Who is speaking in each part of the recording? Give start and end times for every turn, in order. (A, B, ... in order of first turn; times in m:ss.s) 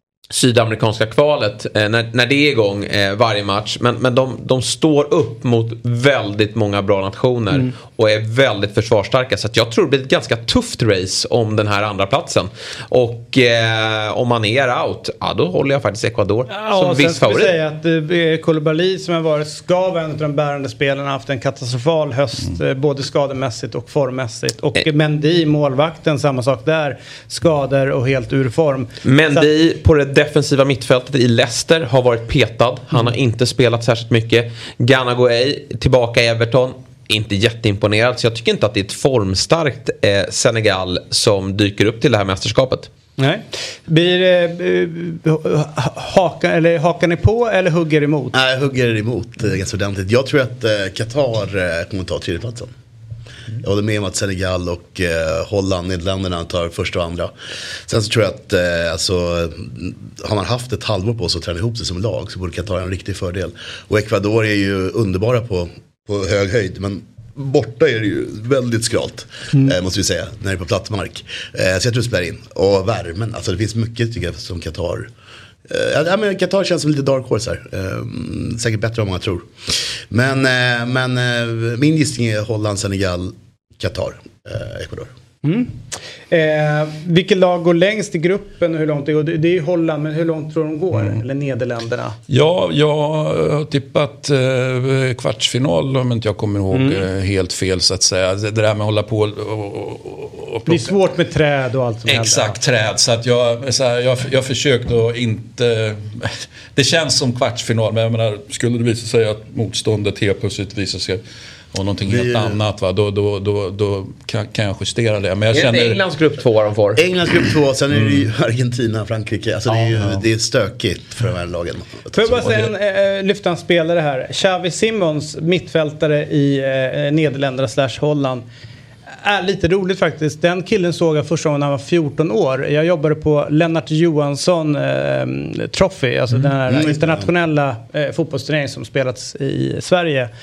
0:00.3-0:17.5 A
0:16.5-0:29.5 B
0:29.0-0:42.9 A
0:43.2-0:48.3 B
0:48.3-0:52.7 C
0:53.6-0:57.3 C
0:57.9-1:15.1 C
1:15.7-1:25.1 C
1:25.4-1:25.8 B
1:26.3-1:32.2 B
1:32.3-1:41.0 D
1:36.7-1:37.0 B
1:40.7-1:42.6 B
1:42.0-1:51.2 D
1:51.7-1:56.0 D
1:55.5-1:57.1 A
1:57.0-2:02.4 C
1:57.9-1:58.3 D
2:02.1-2:08.4 B
2:09.2-2:20.3 B
2:16.7-2:17.3 C